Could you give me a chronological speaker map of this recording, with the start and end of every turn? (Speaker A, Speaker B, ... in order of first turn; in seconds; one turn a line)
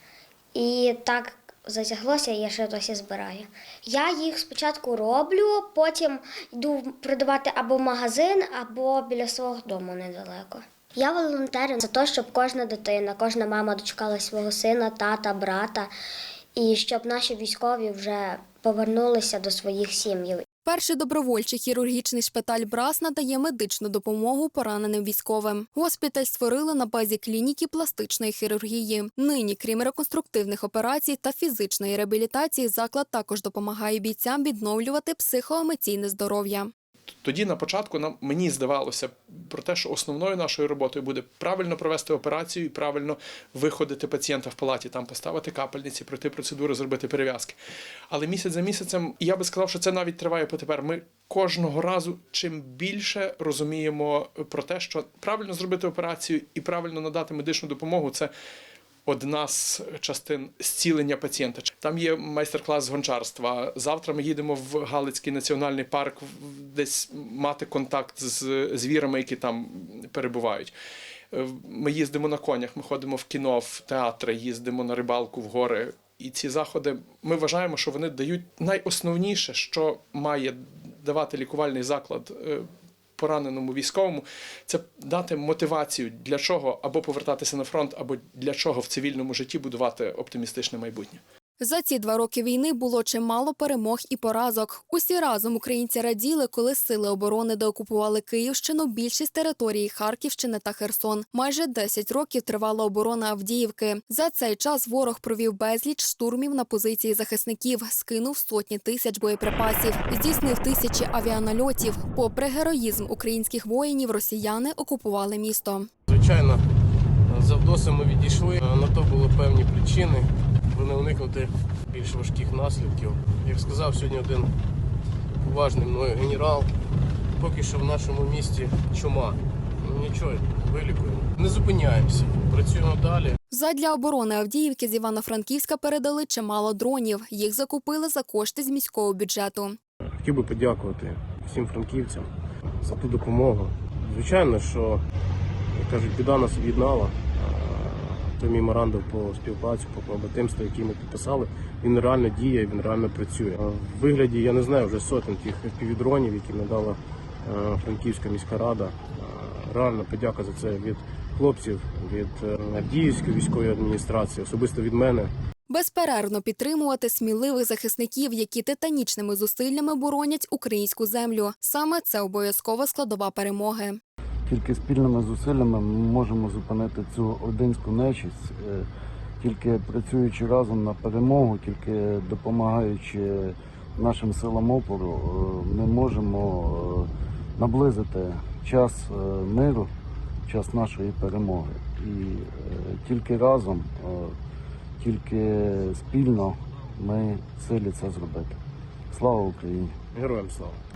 Speaker A: 0.5-15.9
Speaker A: 16.6-20.4
Speaker B: 20.6-36.7
Speaker C: 37.2-47.5
Speaker C: 48.1-58.3
Speaker C: 59.0-70.7
Speaker C: 71.3-82.7
Speaker C: 83.2-91.2
Speaker B: 91.6-115.9
Speaker D: 116.1-116.6
Speaker D: 117.3-124.5
Speaker D: 125.4-126.7
Speaker D: 127.4-133.3
Speaker B: 133.5-139.8
Speaker D: 140.2-142.3
Speaker D: 142.8-145.0
Speaker D: 145.7-165.3
Speaker B: 165.7-174.0
Speaker E: 174.5-178.9
Speaker E: 179.4-189.9
Speaker E: 190.5-194.3
Speaker E: 195.0-198.6
Speaker E: 199.1-199.9
Speaker D: 200.1-200.8